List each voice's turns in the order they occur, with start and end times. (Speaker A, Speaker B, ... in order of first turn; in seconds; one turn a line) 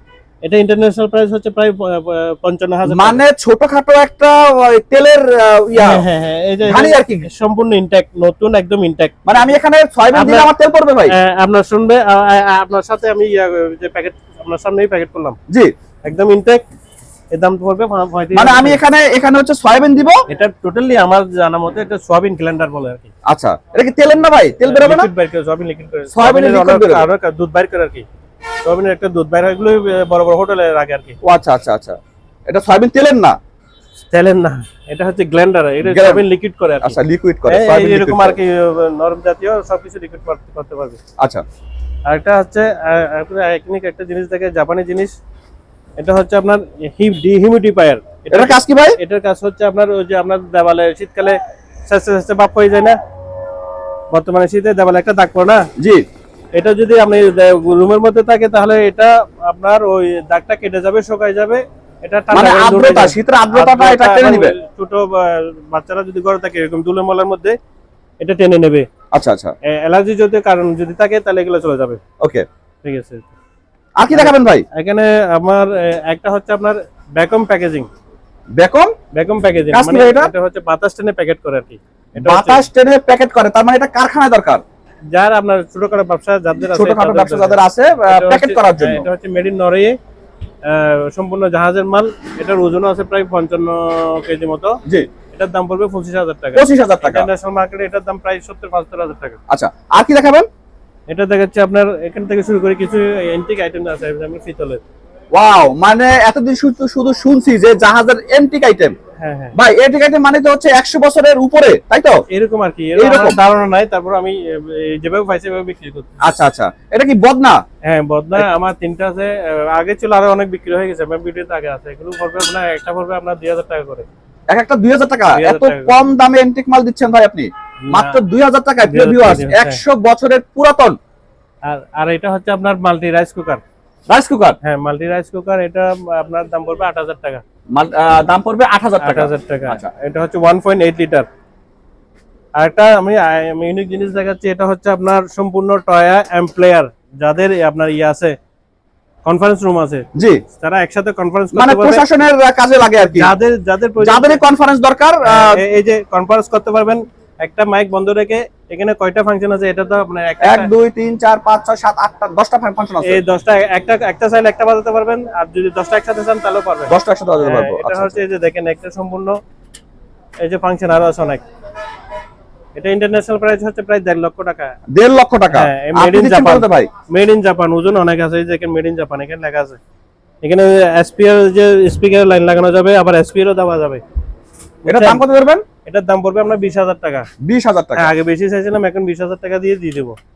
Speaker A: 0.4-3.2
Speaker B: 2.9-6.0
Speaker A: 5.8-9.5
Speaker B: 6.7-7.3
Speaker B: 9.3-11.2
Speaker A: 10.1-10.5
Speaker A: 11.1-15.4
Speaker A: 16.0-16.6
Speaker A: 17.3-18.8
Speaker B: 18.3-20.2
Speaker A: 20.3-23.1
Speaker B: 23.3-25.1
Speaker A: 24.6-28.1
Speaker B: 26.1-27.1
Speaker A: 28.6-31.2
Speaker B: 31.2-33.4
Speaker A: 34.1-41.0
Speaker B: 35.8-36.2
Speaker B: 36.8-38.4
Speaker A: 42.1-45.1
Speaker A: 46.0-53.0
Speaker B: 48.3-49.0
Speaker A: 54.1-55.7
Speaker B: 55.8-56.0
Speaker A: 56.5-67.6
Speaker B: 62.3-64.5
Speaker A: 68.2-68.9
Speaker B: 69.1-69.5
Speaker A: 69.7-72.0
Speaker B: 72.2-72.5
Speaker A: 72.8-73.3
Speaker B: 74.0-74.7
Speaker A: 74.1-77.9
Speaker B: 78.6-78.9
Speaker A: 79.1-82.7
Speaker B: 79.7-80.3
Speaker B: 82.2-84.6
Speaker A: 85.1-90.0
Speaker B: 86.6-89.1
Speaker A: 90.6-99.4
Speaker B: 96.5-97.3
Speaker B: 99.5-100.5
Speaker A: 101.1-104.8
Speaker B: 105.3-108.9
Speaker A: 109.2-109.6
Speaker B: 109.5-112.2
Speaker A: 112.3-116.2
Speaker B: 113.0-113.4
Speaker B: 116.2-117.6
Speaker A: 117.8-124.1
Speaker B: 124.5-131.0
Speaker A: 125.3-126.0
Speaker A: 127.8-128.2
Speaker A: 128.8-129.8
Speaker A: 131.7-133.6
Speaker B: 134.1-134.6
Speaker A: 134.6-137.4
Speaker B: 137.7-139.9
Speaker A: 139.0-141.3
Speaker A: 142.6-148.4
Speaker A: 149.2-152.0
Speaker B: 150.2-150.4
Speaker B: 151.5-153.3
Speaker A: 153.0-154.4
Speaker B: 154.0-155.6
Speaker A: 155.3-160.7
Speaker B: 160.4-163.2
Speaker A: 163.0-169.4
Speaker B: 166.9-168.2
Speaker A: 170.4-171.4
Speaker A: 172.8-174.8
Speaker B: 174.9-176.9
Speaker A: 175.5-179.8
Speaker A: 180.4-184.0
Speaker A: 184.8-185.2
Speaker B: 184.9-185.7
Speaker A: 185.8-187.3
Speaker B: 187.4-188.1
Speaker A: 188.0-190.2